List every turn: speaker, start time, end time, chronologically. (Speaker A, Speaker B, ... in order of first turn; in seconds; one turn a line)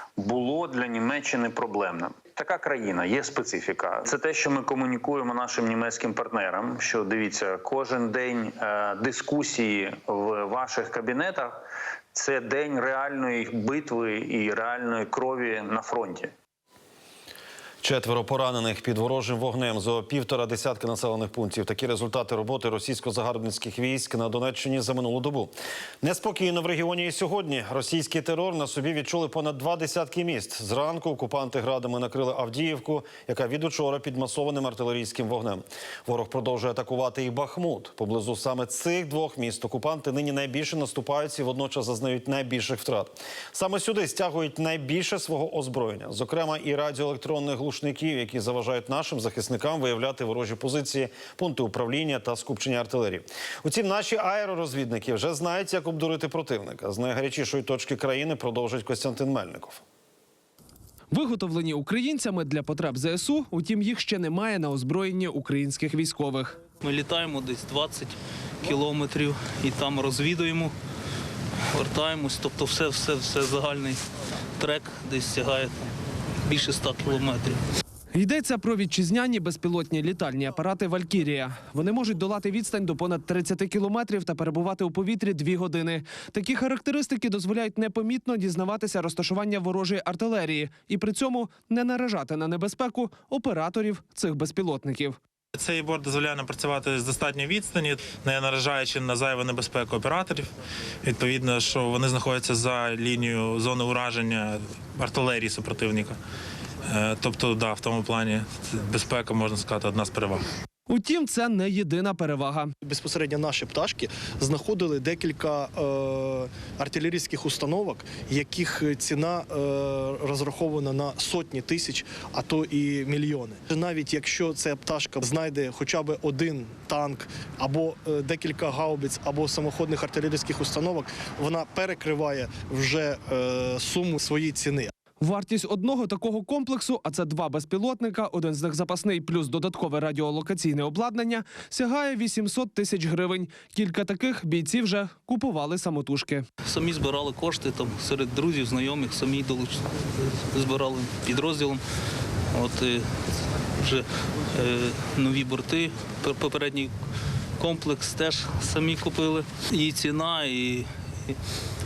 Speaker A: 0.2-11.6
Speaker A: 12.1-16.3
Speaker B: 17.8-59.8
Speaker C: 61.1-66.6
Speaker D: 66.8-70.7
Speaker D: 71.7-74.0
Speaker D: 74.6-75.8
Speaker D: 76.5-77.6
Speaker C: 78.1-95.2
Speaker E: 95.6-100.5
Speaker E: 101.1-106.2
Speaker E: 106.9-110.4
Speaker C: 110.9-112.7
Speaker F: 112.8-134.9
Speaker C: 135.2-146.4
Speaker D: 146.7-151.8
Speaker D: 152.5-153.1
Speaker D: 153.8-156.9
Speaker D: 157.6-161.4